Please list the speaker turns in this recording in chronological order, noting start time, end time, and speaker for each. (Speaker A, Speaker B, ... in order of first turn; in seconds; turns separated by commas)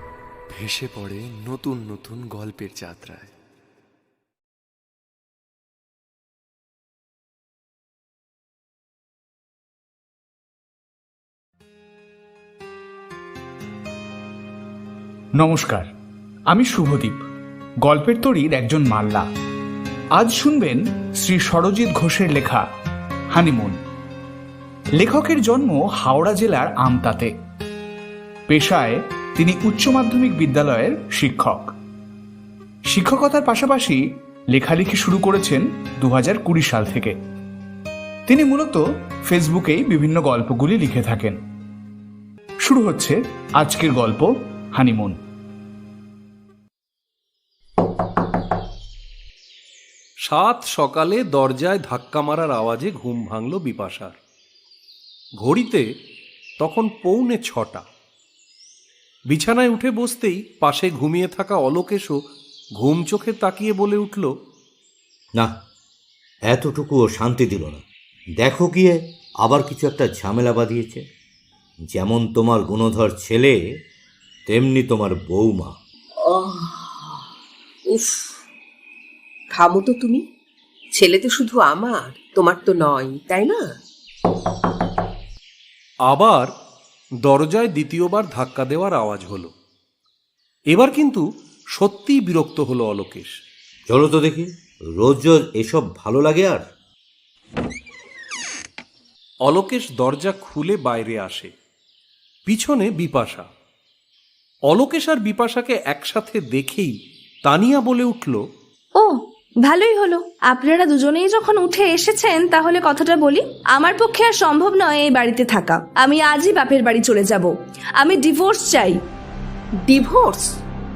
Speaker A: 0.5-3.3, Speaker B: 15.4-15.9, Speaker B: 16.5-17.2, Speaker B: 17.8-19.2, Speaker B: 20.1-22.6, Speaker B: 23.3-23.8, Speaker B: 25.0-27.3, Speaker B: 28.5-31.7, Speaker B: 32.9-34.0, Speaker B: 34.5-37.1, Speaker B: 38.3-41.4, Speaker B: 42.6-45.2, Speaker C: 50.2-54.2, Speaker C: 55.4-55.8, Speaker C: 56.6-57.8, Speaker C: 59.3-62.2, Speaker C: 62.8-64.3, Speaker D: 66.5-67.8, Speaker D: 68.4-71.0, Speaker D: 71.9-73.6, Speaker D: 74.5-75.8, Speaker E: 76.2-77.3, Speaker E: 77.9-78.4, Speaker E: 79.5-80.2, Speaker E: 80.9-83.6, Speaker C: 86.1-86.5, Speaker C: 87.2-89.5, Speaker C: 90.7-91.2, Speaker C: 91.8-93.3, Speaker D: 93.9-96.6, Speaker C: 99.5-101.5, Speaker C: 102.5-103.5, Speaker C: 104.7-106.9, Speaker C: 107.5-108.4, Speaker F: 109.0-119.0, Speaker E: 119.9-120.5